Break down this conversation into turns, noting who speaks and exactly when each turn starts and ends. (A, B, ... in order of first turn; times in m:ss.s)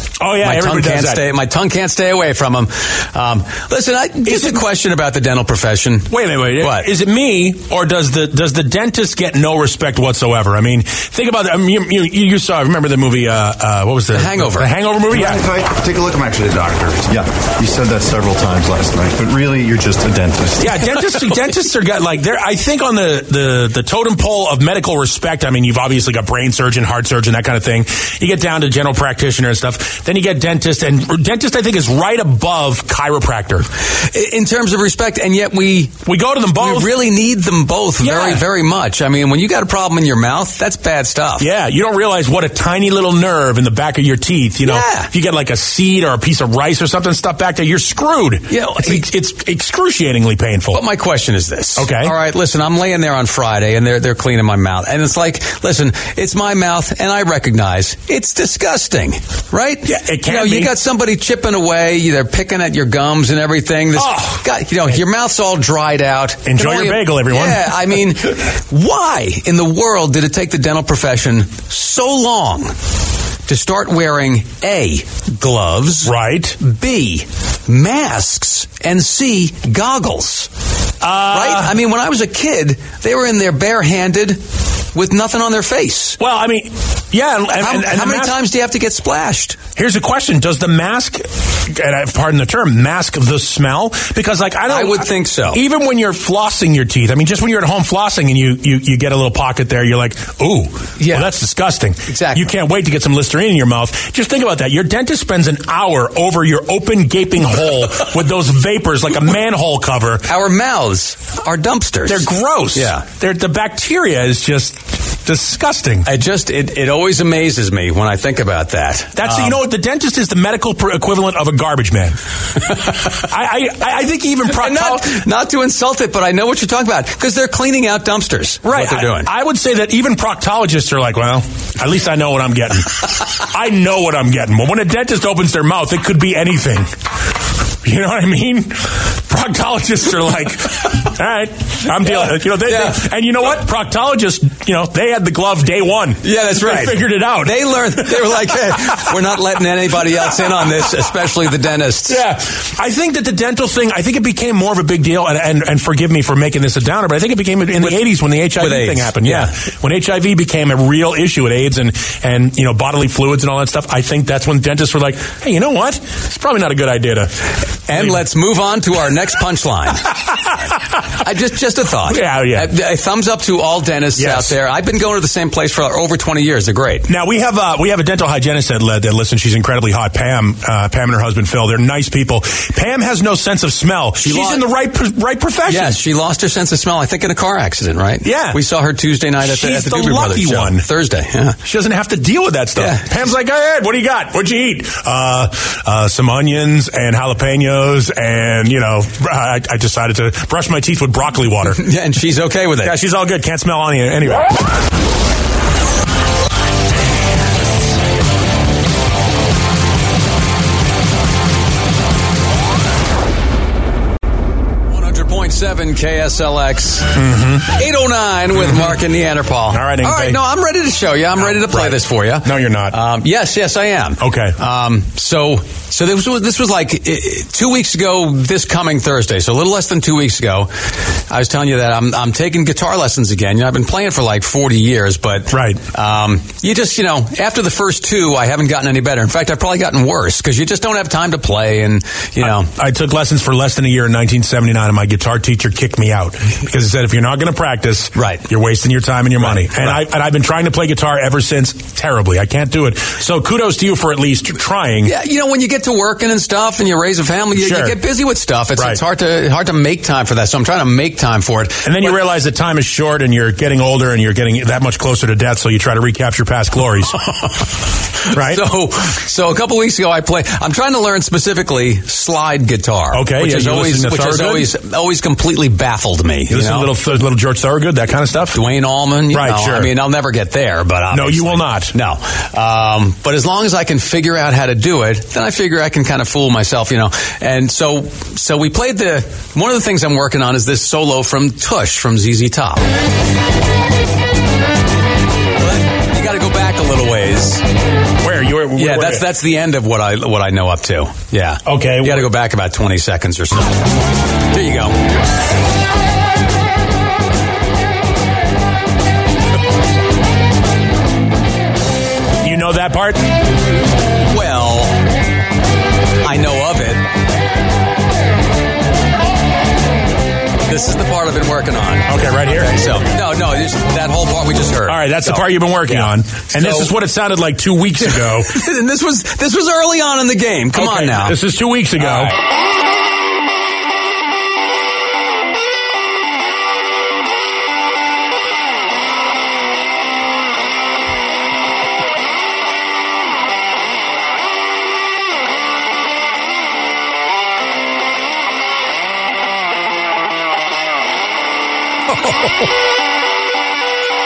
0:00.2-0:01.3 A
0:00.4-0:06.9 B
0:04.3-0:04.6 A
0:06.1-0:15.5 A
0:14.1-0:14.7 B
0:15.1-0:20.8 C
0:20.6-0:33.7 A
0:33.9-0:36.0 B
0:36.1-0:36.9 A
0:36.6-0:41.5 B
0:38.0-0:38.4 A
0:41.4-0:50.8 A
0:44.6-0:45.1 B
0:48.5-0:49.0 B
0:50.7-1:12.7 B
0:51.8-0:52.1 A
0:59.9-1:00.7 A
1:04.0-1:04.4 A
1:06.5-1:08.0 A
1:13.5-1:20.5 B
1:16.0-1:16.6 A
1:21.0-1:21.8 A
1:21.3-1:24.4 B
1:24.9-1:26.2 B
1:26.2-1:28.4 A
1:27.6-1:29.6 B
1:29.8-1:50.3 A
1:34.7-1:35.6 B
1:41.0-1:41.3 B
1:42.1-1:42.4 B
1:50.3-1:53.0 B
1:52.1-1:56.1 A
1:56.0-1:59.6 B
1:59.2-2:05.2 A
2:04.5-2:09.3 B
2:08.6-2:16.9 A
2:17.8-2:28.5 A
2:22.0-2:23.0 B
2:26.2-2:32.2 B
2:32.1-2:47.4 A
2:38.6-2:39.5 B
2:47.9-2:50.1 B
2:47.9-2:48.2 A
2:50.2-2:50.6 A
2:51.2-2:57.1 B
2:52.0-2:52.7 A
2:54.2-2:54.6 A
2:57.1-3:06.0 A
3:04.2-3:04.6 B
3:05.7-3:11.6 B
3:08.2-3:08.6 A
3:09.4-3:10.9 A
3:11.6-3:21.8 A
3:12.8-3:13.1 B
3:21.7-3:23.0 B
3:22.8-3:24.5 A
3:34.9-3:50.7 B
3:37.2-3:37.7 A
3:39.7-3:40.4 A
3:41.4-3:43.0 A
3:44.2-3:44.6 A
3:51.3-4:02.7 B
3:55.5-3:55.8 A
4:02.4-4:15.1 A
4:08.2-4:08.4 B
4:09.4-4:10.0 B
4:15.0-4:22.2 B
4:17.6-4:18.0 A
4:21.8-4:27.2 A
4:27.2-4:36.9 B
4:28.3-4:28.6 A
4:33.1-4:34.7 A
4:36.5-4:38.6 A
4:38.5-4:52.8 B
4:39.3-4:39.9 A
4:41.1-4:41.9 A
4:55.6-4:57.6 B
4:58.2-4:59.3 A
4:58.8-5:03.8 B
5:01.7-5:02.3 A
5:04.5-5:05.0 B
5:12.4-5:13.3 A
5:14.3-5:15.0 B
5:16.2-5:17.0 B
5:20.7-5:26.9 B
5:22.1-5:23.0 A
5:24.9-5:28.5 A
5:28.0-5:31.4 B
5:30.7-5:32.3 A
5:32.0-5:32.4 B
5:52.1-5:52.6 A